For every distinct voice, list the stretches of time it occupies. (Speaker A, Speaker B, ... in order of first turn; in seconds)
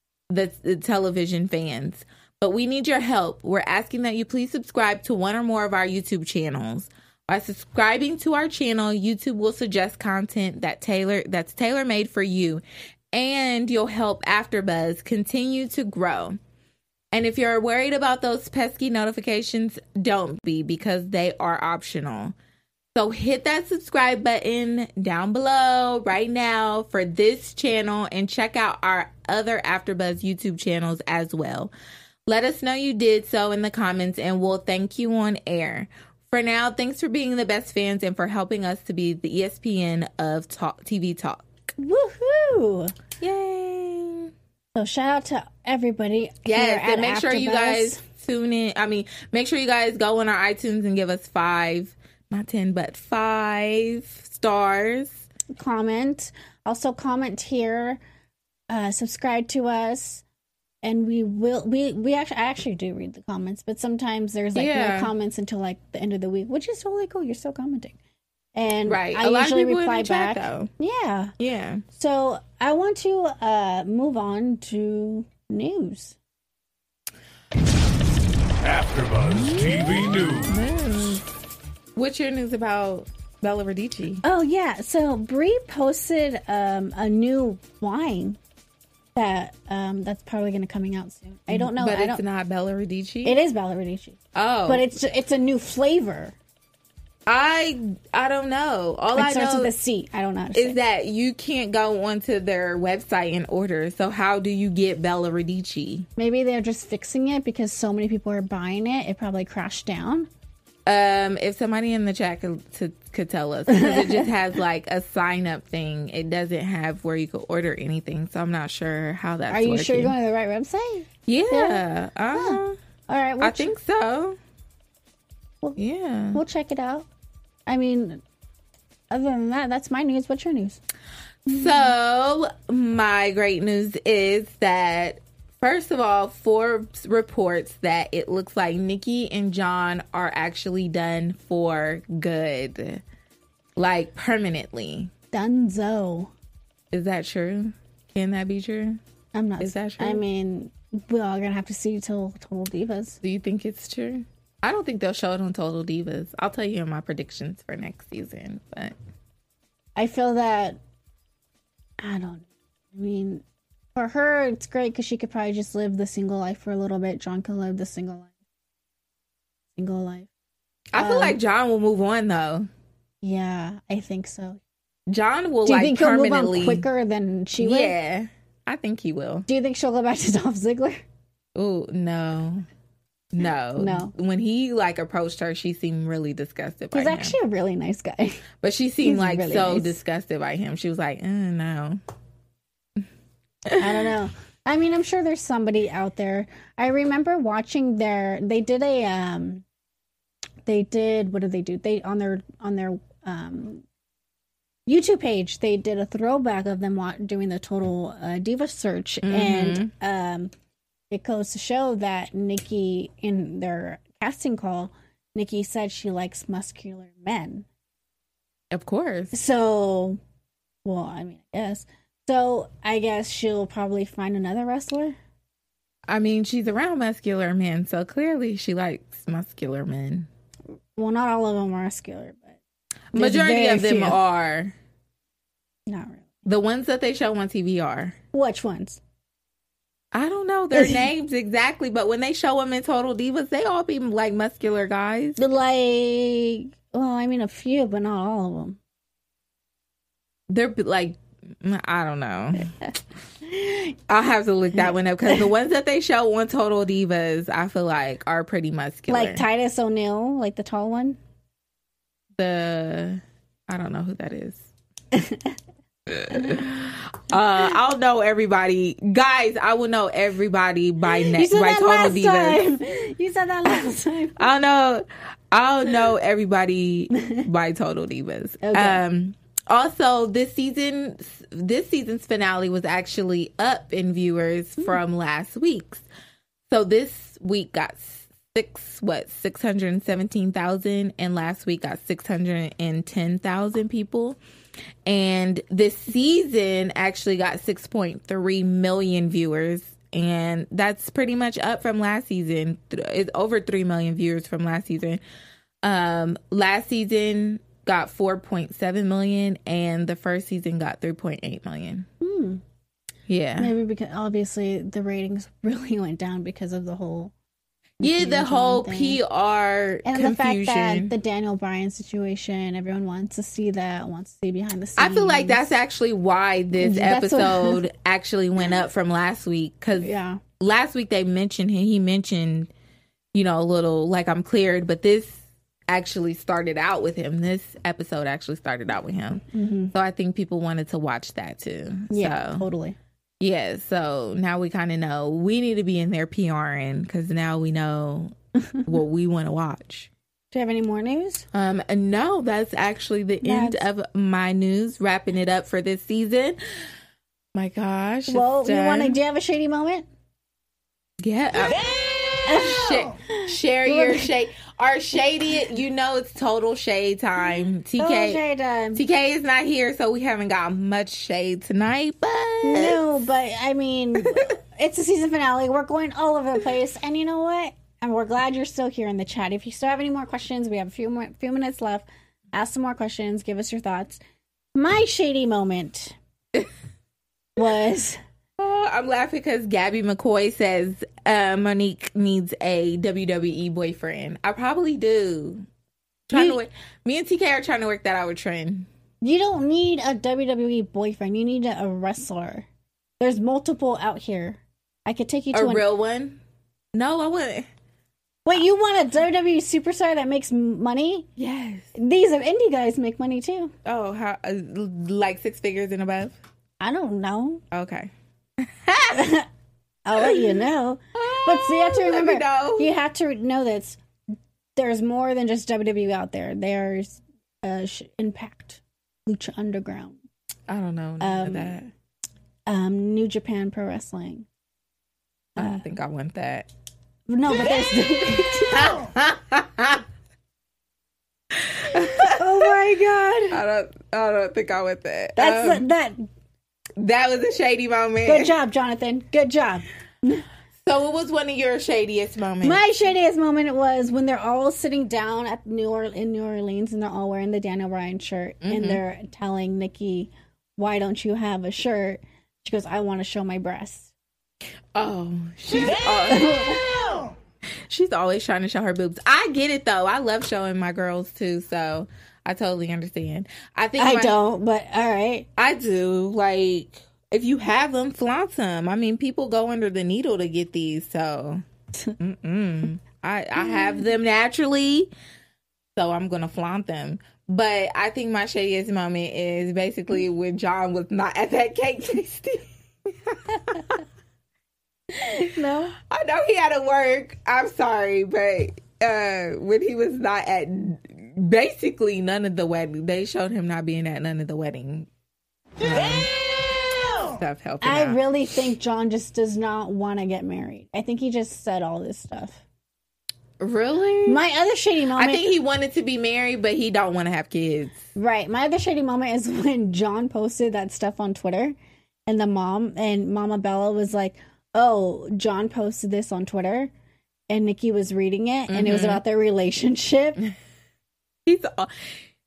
Speaker A: 0.3-16.4, 17.1-22.3, 22.9-31.7, 32.3-41.5, 43.2-44.3, 46.4-55.2, 64.5-65.1, 68.8-70.7, 71.4-71.8, 79.6-81.2, 82.0-84.2, 91.5-93.4, 94.3-94.8, 97.2-99.7, 100.5-106.1, 110.8-120.1, 121.3-122.8, 123.4-124.4, 125.8-126.4, 131.5-143.0, 143.8-145.1, 146.9-149.0, 149.6-150.2, 153.2-158.9, 170.9-172.7, 175.1-176.8, 177.6-179.5, 181.5-182.7, 183.3-187.3, 188.6-192.0, 193.7-194.1, 209.2-209.9, 218.7-219.3, 226.1-230.3, 233.1-234.7, 236.4-238.2, 240.1-245.4, 250.5-252.7, 254.1-259.4, 262.4-264.7, 266.1-272.6, 274.4-286.1, 286.7-294.4, 295.0-305.2, 305.8-312.1, 313.3-313.7, 318.0-321.1, 325.0-332.7, 333.3-342.6, 343.4-348.3, 348.8-350.1, 351.5-356.6, 357.5-359.2, 361.2-368.4, 368.9-373.1, 374.2-374.5, 388.6-395.7, 396.3-398.9, 405.5-406.4, 406.9-407.7, 411.4-411.9, 413.8-416.4, 417.7-419.2, 420.2-420.6, 421.1-422.9, 430.7-431.9, 435.6-436.7, 438.7-440.0, 441.7-442.7, 443.5-445.8, 447.0-448.5, 450.8-452.8, 458.6-459.0, 464.9-466.9, 467.9-474.4, 475.6-481.6, 482.2-485.1, 485.9-494.0, 496.0-505.1, 505.8-506.3, 507.2-508.2, 513.6-514.4, 515.1-518.1, 528.7-529.2, 531.5-532.2
Speaker B: 41.8-42.9, 44.7-48.0, 55.5-58.0, 58.7-60.2, 60.8-68.0, 68.5-71.3, 71.9-76.2, 84.2-88.4, 89.2-92.2, 93.2-96.3, 99.1-100.8, 106.2-110.3, 113.7-114.3, 119.5-121.8, 122.3-123.7, 126.3-127.1, 127.7-128.2, 129.1-130.8, 145.3-146.3, 149.3-153.2, 159.9-160.8, 162.0-163.4, 163.9-168.3, 169.7-170.3, 170.9-171.4, 173.2-174.6, 175.6-177.9, 179.5-181.0, 183.8-184.1, 186.9-188.4, 189.0-190.0, 193.7-199.6, 200.7-203.8, 204.9-210.5, 211.1-217.7, 219.3-220.2, 220.8-225.2, 230.9-232.6, 233.1-234.2, 235.9-236.3, 238.3-239.0, 240.7-241.0, 245.4-248.8, 253.4-253.9, 254.8-255.4, 259.1-261.2, 265.1-265.6, 266.3-266.7, 271.1-274.4, 277.2-277.4, 278.6-279.0, 312.2-312.6, 313.6-317.3, 318.0-319.2, 320.0-325.7, 326.7-327.8, 330.0-330.4, 339.5-339.9, 342.1-343.0, 350.5-351.4, 353.4-353.8, 358.3-360.1, 362.4-364.3, 368.0-369.0, 372.6-384.2, 384.7-386.1, 387.6-388.2, 396.3-396.6, 399.2-402.6, 403.2-405.8, 408.4-411.3, 411.9-413.7, 416.8-417.6, 419.1-419.5, 420.0-424.0, 424.8-430.2, 431.2-431.8, 432.7-434.4, 435.6-435.8, 437.3-439.0, 442.0-443.6, 445.4-446.3, 448.2-450.4, 452.6-464.1, 466.1-467.1, 474.0-475.5, 495.2-495.9, 507.8-512.6, 514.2-515.4, 518.1-521.8, 522.3-526.9, 527.5-530.4
Speaker C: 78.6-80.6